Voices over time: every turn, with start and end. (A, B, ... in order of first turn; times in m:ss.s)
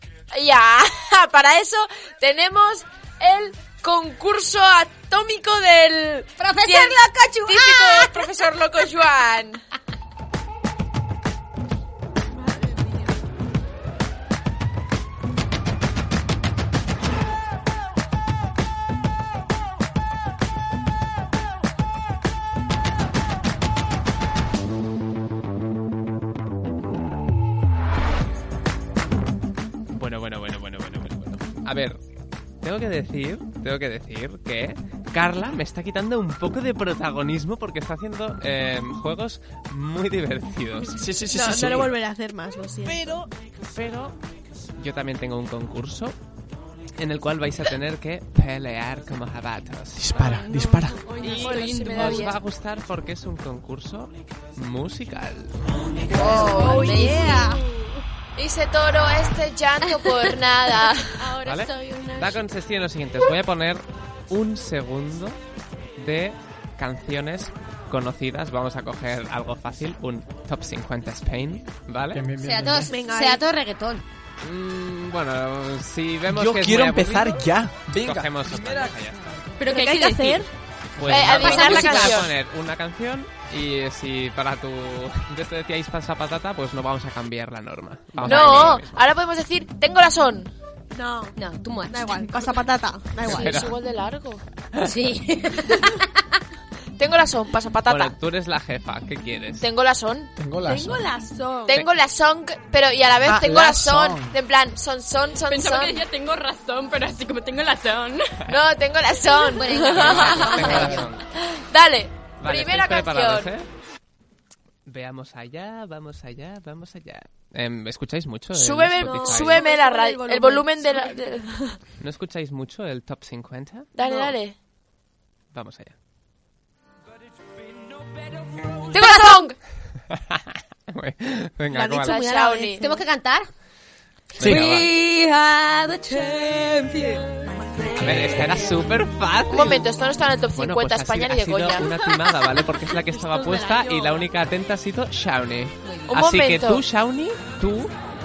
0:00.3-0:09.6 A
0:06.4-0:08.3 B
0:29.9-0:32.0 C
0:32.6-0:41.0 C
0:41.0-0:41.9 D
0:41.3-0:43.2 E
0:42.8-0:44.1 C
0:44.8-0:46.2 C
0:47.0-0:50.4 C
0:49.9-0:51.0 D
0:50.2-0:52.3 F
0:51.1-0:52.4 A
0:51.2-0:55.6 C
0:56.2-0:57.3 A
0:56.2-0:57.5 B
0:56.2-0:57.7 E
0:58.4-1:02.4 A
1:01.4-1:05.4 C
1:06.0-1:12.3 C
1:12.1-1:12.9 D
1:12.4-1:14.0 B
1:12.9-1:13.4 E
1:14.4-1:17.4 C
1:16.2-1:19.6 D
1:18.0-1:19.2 C
1:19.6-1:20.5 F
1:19.7-1:20.5 E
1:21.0-1:28.9 C
1:21.0-1:22.3 A
1:21.2-1:22.2 B
1:28.2-1:28.5 D
1:28.2-1:30.5 A
1:30.9-1:33.6 E
1:31.4-1:32.6 B
1:33.2-1:33.8 C
1:33.3-1:34.4 A
1:34.8-1:36.2 B
1:37.0-1:38.2 A
1:37.9-1:39.7 C
1:39.6-1:40.3 A
1:40.4-1:41.0 D
1:40.6-1:41.8 E
1:41.7-1:46.0 A
1:43.2-1:44.4 D
1:45.5-1:48.4 F
1:48.5-1:53.5 A
1:49.4-1:51.0 B
1:49.8-1:51.2 C
1:52.4-1:53.7 C
1:54.8-1:59.6 C
1:58.5-2:01.8 A
1:59.0-2:01.4 E
2:02.0-2:03.9 C
2:03.9-2:04.6 A
2:04.0-2:04.3 E
2:05.5-2:05.9 C
2:08.9-2:09.6 A
2:10.1-2:12.4 C
2:11.7-2:13.0 E
2:12.0-2:12.8 A
2:12.8-2:13.5 B
2:14.4-2:14.9 C
2:14.4-2:17.4 B
2:14.4-2:14.8 D
2:17.4-2:18.8 E
2:18.0-2:19.9 C
2:18.1-2:18.6 B
2:19.5-2:21.9 A
2:20.5-2:27.9 C
2:22.9-2:24.3 E
2:25.8-2:26.2 B
2:26.1-2:26.8 A